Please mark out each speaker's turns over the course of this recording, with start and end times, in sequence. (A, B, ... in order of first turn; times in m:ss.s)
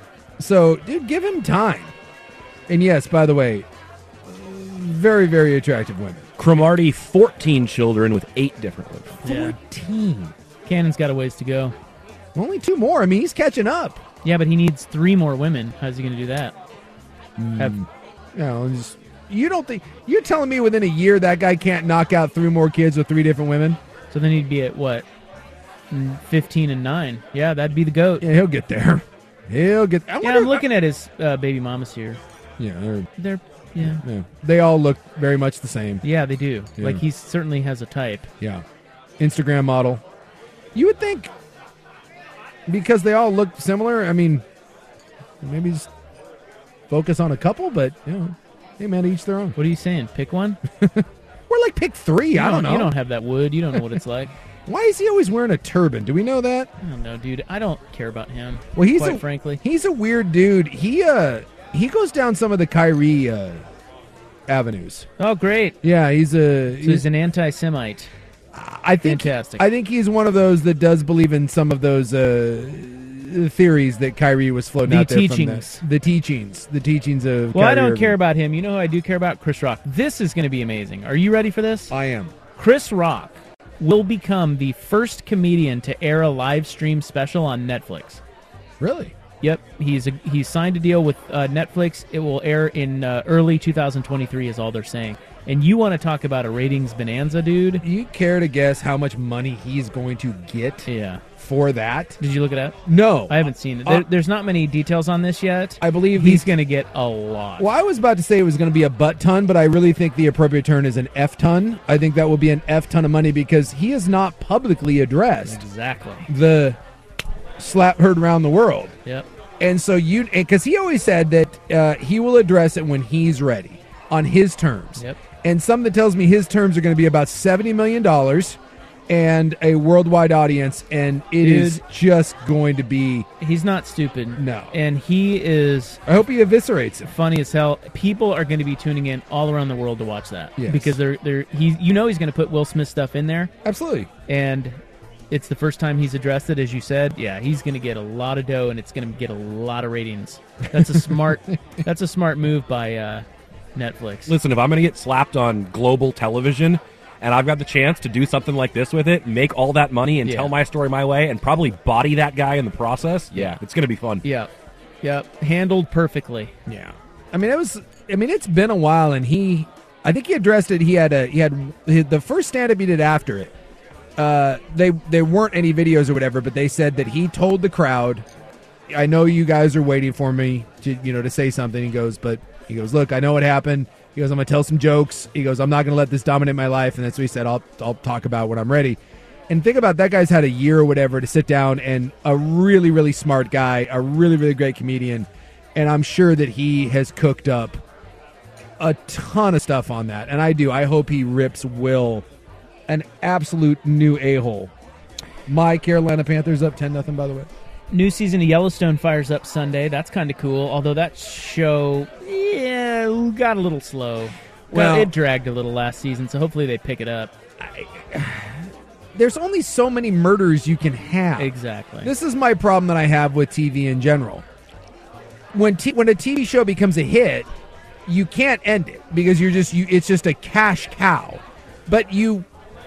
0:00.4-0:01.9 A
0:02.7-0:03.7 A
0:04.2-0:06.3 A
0:06.4-0:09.2 B
0:09.2-0:10.4 A
0:09.2-0:09.6 C
0:10.7-0:11.8 C
0:12.4-0:14.0 A
0:14.2-0:16.5 C
0:17.4-0:23.8 A
0:24.1-0:25.1 C
0:25.9-0:28.3 C
0:28.2-0:30.6 A
0:30.2-0:32.2 C
0:32.6-0:33.1 A
0:33.2-0:34.0 C
0:33.8-0:36.0 A
0:36.0-0:38.3 C
0:39.2-0:40.0 A
0:40.8-0:41.3 A
0:42.7-0:44.4 A
0:45.4-0:45.9 A
0:46.9-0:49.6 A
0:49.6-0:50.6 C
0:50.7-0:52.9 A
0:52.4-0:54.3 C
0:54.7-0:56.7 A
0:56.8-0:59.6 C
0:58.8-1:03.6 A
1:04.5-1:05.1 A
1:05.2-1:05.8 C
1:05.8-1:07.1 A
1:06.8-1:08.1 C
1:08.5-1:18.2 A
1:09.0-1:09.7 C
1:14.9-1:15.8 C
1:17.5-1:21.9 C
1:21.9-1:22.4 A
1:22.6-1:28.2 C
1:28.8-1:29.2 A
1:29.4-1:37.8 C
1:37.8-1:42.2 A
1:40.9-1:41.2 C
1:42.2-1:47.7 C
1:42.9-1:44.1 A
1:45.8-1:46.5 A
1:47.6-1:55.6 A
1:55.5-1:56.3 C
1:56.3-1:56.8 A
1:57.6-1:59.0 A
1:59.6-2:08.6 A
2:09.1-2:13.3 A
2:11.4-2:11.8 C
2:13.4-2:16.0 C
2:14.4-2:14.8 A
2:16.1-2:17.1 A
2:17.1-2:23.5 C
2:20.6-2:21.0 A
2:23.6-2:24.1 A
2:24.3-2:24.8 C
2:25.3-2:33.2 C
2:33.8-2:34.3 C
2:34.3-2:44.2 B
2:40.2-2:40.5 C
2:44.2-2:44.5 C
2:45.0-2:46.5 C
2:46.7-2:53.5 A
2:54.2-2:58.2 A
2:58.9-3:09.0 A
3:09.5-3:17.8 A
3:18.8-3:22.3 A
3:22.9-3:24.7 A
3:25.5-3:27.5 A
3:27.9-3:37.3 C
3:34.7-3:35.1 A
3:37.6-3:41.5 A
3:41.4-3:42.1 C
3:42.0-3:44.4 A
3:45.5-3:47.5 A
3:48.1-3:52.5 A